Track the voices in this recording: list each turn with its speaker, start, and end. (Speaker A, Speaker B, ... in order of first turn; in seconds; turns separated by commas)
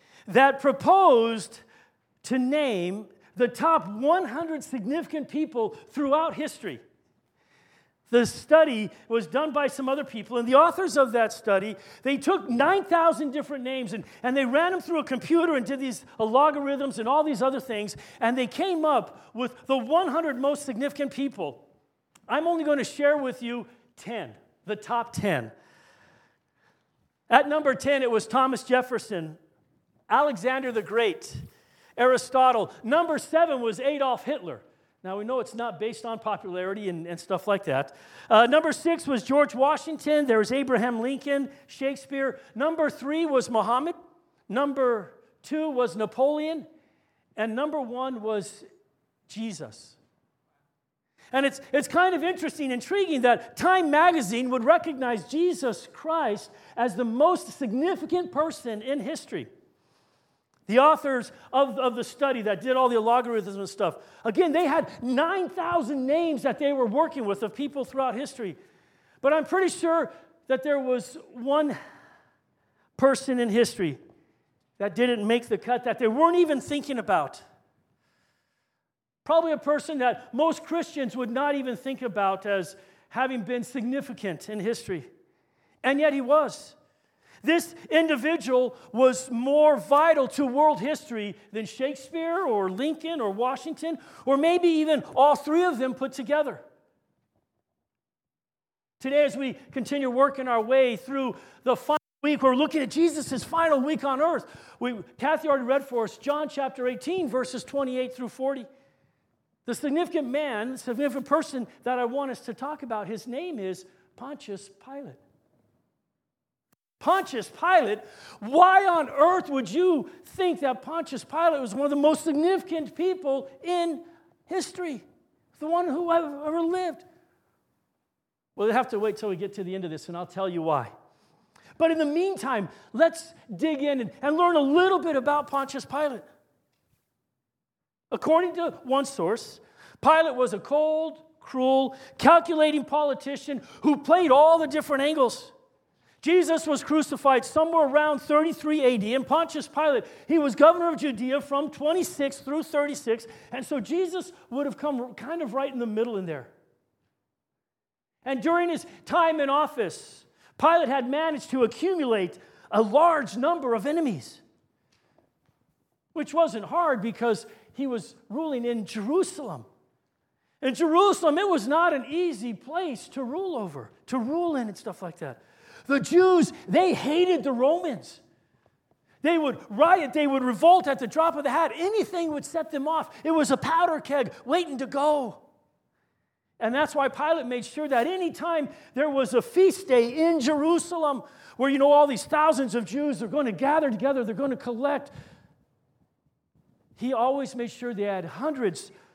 Speaker A: 0.3-1.6, Speaker A: 2.2-6.8, Speaker A: 8.1-21.6, Speaker A: 22.3-25.5, Speaker A: 27.3-29.4, Speaker A: 30.1-31.4, Speaker A: 32.0-44.0, Speaker A: 44.5-46.6, Speaker A: 47.4-48.7, Speaker A: 49.3-50.0, Speaker A: 51.3-59.5, Speaker A: 60.7-68.6, Speaker A: 69.2-71.8, Speaker A: 73.0-74.0, Speaker A: 74.8-77.4, Speaker A: 79.2-85.1, Speaker A: 85.8-86.8, Speaker A: 87.4-96.6, Speaker A: 99.0-108.7, Speaker A: 109.7-115.2, Speaker A: 117.0-127.0, Speaker A: 128.6-130.9, Speaker A: 131.8-136.2, Speaker A: 138.1-145.5, Speaker A: 146.2-156.5, Speaker A: 158.2-164.4, Speaker A: 166.1-169.7, Speaker A: 170.6-178.2, Speaker A: 179.2-185.4, Speaker A: 186.6-195.1, Speaker A: 196.9-198.9